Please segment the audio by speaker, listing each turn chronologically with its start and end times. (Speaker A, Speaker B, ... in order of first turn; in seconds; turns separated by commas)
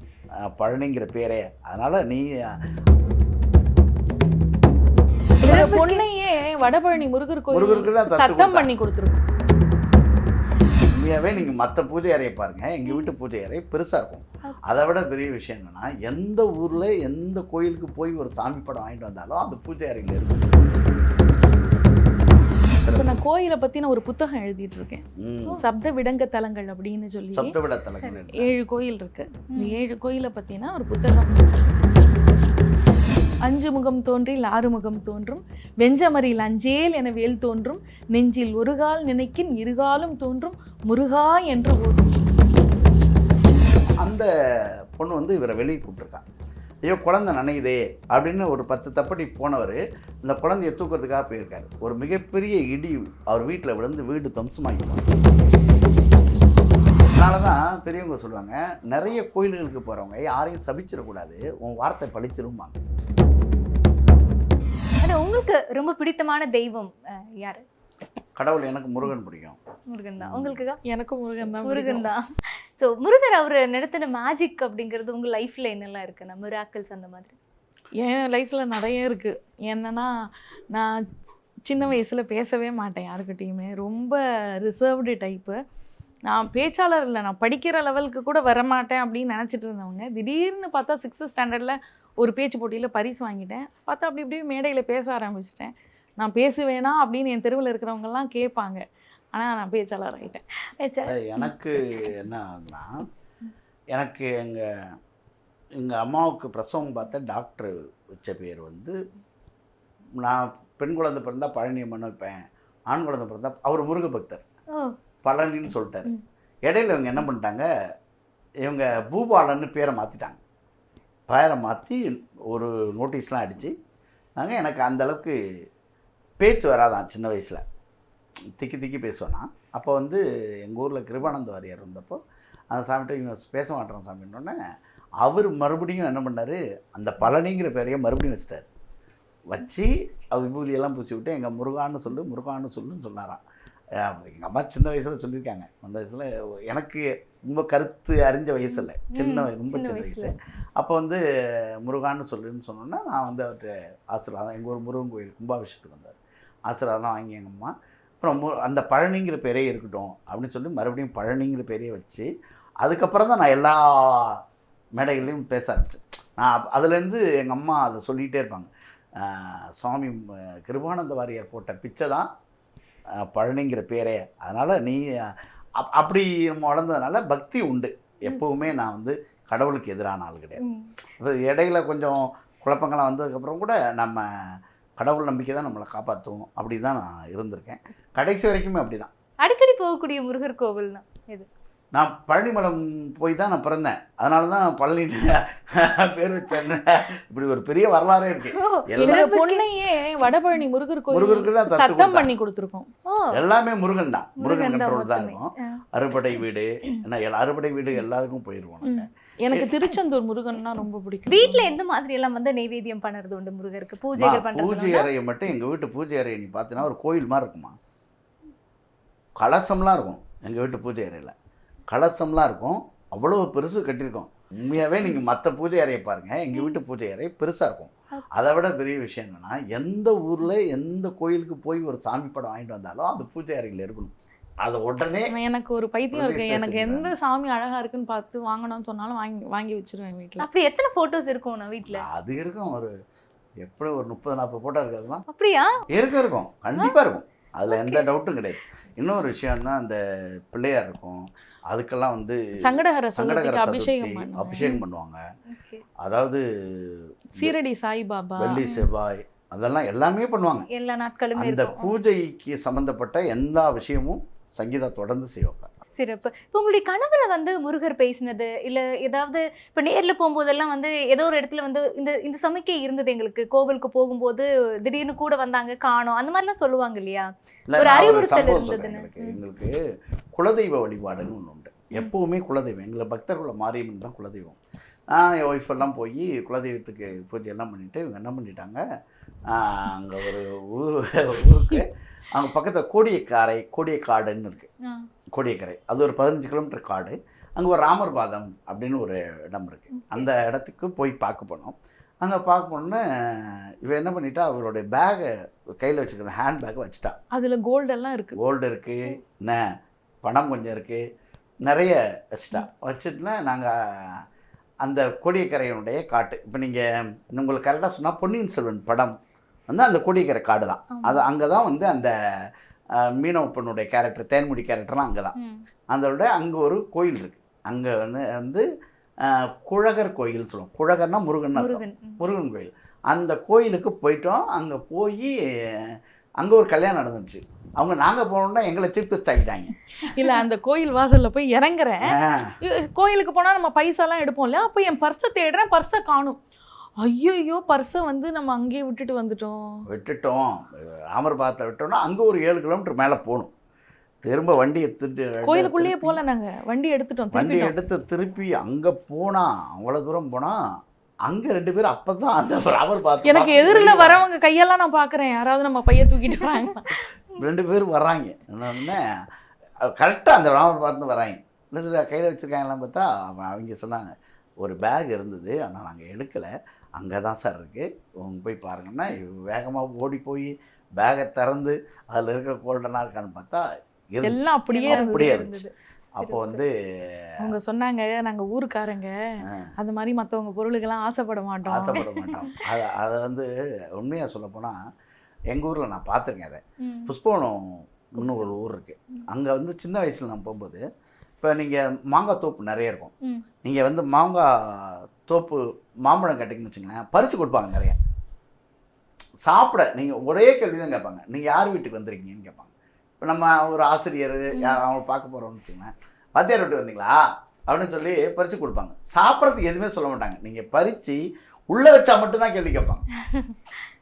Speaker A: 0.5-2.6, Speaker B: 5.4-9.2, Speaker C: 5.4-6.0, Speaker A: 7.5-8.7, Speaker A: 10.9-20.7, Speaker C: 12.8-13.1, Speaker A: 22.8-23.1, Speaker B: 22.9-25.0, Speaker A: 25.2-25.6, Speaker B: 25.6-27.5, Speaker A: 27.3-28.5, Speaker B: 28.4-31.6, Speaker C: 29.5-29.8, Speaker B: 33.4-42.2, Speaker A: 44.0-46.2, Speaker A: 46.9-55.1, Speaker A: 57.1-62.8, Speaker C: 65.0-67.6, Speaker A: 68.4-69.6, Speaker C: 69.9-70.8, Speaker A: 70.2-70.6, Speaker B: 70.8-72.1, Speaker C: 71.6-72.2, Speaker C: 72.8-77.3, Speaker B: 78.0-81.0, Speaker B: 81.7-85.6, Speaker B: 86.3-98.8, Speaker B: 99.3-100.4, Speaker C: 100.8-101.5, Speaker A: 101.0-103.0, Speaker A: 104.0-105.0, Speaker A: 105.8-109.0, Speaker A: 110.2-114.4, Speaker A: 115.2-116.1, Speaker A: 116.7-117.7, Speaker A: 118.7-120.4, Speaker A: 121.3-123.8, Speaker A: 124.4-125.4, Speaker A: 126.4-127.6, Speaker A: 128.6-132.2, Speaker A: 132.7-134.6, Speaker A: 135.2-138.7, Speaker A: 139.5-143.4, Speaker A: 144.0-156.2, Speaker C: 148.7-150.3, Speaker A: 156.7-162.3, Speaker A: 162.8-164.4, Speaker A: 165.0-172.3, Speaker A: 173.2-180.6, Speaker C: 180.6-180.9, Speaker A: 181.2-189.1, Speaker C: 189.4-191.5, Speaker A: 191.9-199.2, Speaker C: 198.6-199.6, Speaker B: 199.0-202.9, Speaker A: 201.1-202.3, Speaker C: 203.1-203.3, Speaker A: 203.3-209.9, Speaker C: 204.4-205.8, Speaker B: 208.8-211.7, Speaker C: 211.3-215.1, Speaker A: 214.2-217.8, Speaker A: 219.4-221.3, Speaker A: 221.9-235.3, Speaker C: 226.5-226.8, Speaker B: 235.3-240.5, Speaker A: 236.1-237.2, Speaker C: 240.4-242.0, Speaker A: 241.9-242.9, Speaker A: 243.6-245.2, Speaker C: 245.3-245.8, Speaker A: 245.9-250.0, Speaker C: 247.7-248.1, Speaker A: 250.5-255.2, Speaker B: 252.6-254.7, Speaker C: 255.5-255.8, Speaker A: 256.0-257.6, Speaker B: 257.4-258.6, Speaker A: 258.4-260.7, Speaker C: 258.6-258.9, Speaker C: 260.7-261.9, Speaker A: 261.4-265.7, Speaker C: 266.0-279.4, Speaker A: 277.7-279.8, Speaker A: 280.4-284.6, Speaker A: 285.1-288.8, Speaker A: 289.5-294.7, Speaker A: 295.4-305.3, Speaker C: 299.9-300.3, Speaker A: 305.8-307.1, Speaker B: 307.3-308.4, Speaker A: 308.4-309.6, Speaker A: 310.2-311.0, Speaker A: 311.6-314.2, Speaker A: 314.8-319.1, Speaker A: 319.7-322.1, Speaker C: 320.9-321.2, Speaker A: 323.0-325.4, Speaker C: 325.4-325.6, Speaker A: 325.9-328.6, Speaker A: 329.2-339.7, Speaker C: 331.6-332.2, Speaker B: 340.0-346.4, Speaker A: 342.1-342.5, Speaker B: 347.0-349.8, Speaker A: 349.9-353.5, Speaker A: 354.2-356.2, Speaker B: 355.4-357.8, Speaker A: 357.3-360.6, Speaker A: 361.3-364.2, Speaker B: 363.2-367.0, Speaker A: 367.4-369.1, Speaker A: 369.9-374.1, Speaker A: 374.6-385.5, Speaker B: 384.2-385.6, Speaker C: 384.7-386.6, Speaker A: 386.2-387.6, Speaker B: 387.4-389.1, Speaker A: 389.4-389.7, Speaker B: 389.8-392.1, Speaker A: 391.6-394.8, Speaker A: 395.5-400.8, Speaker C: 396.8-397.1, Speaker C: 398.2-398.5, Speaker A: 401.4-403.1, Speaker A: 403.6-408.0, Speaker A: 409.5-421.2, Speaker C: 414.5-414.8, Speaker A: 421.7-423.0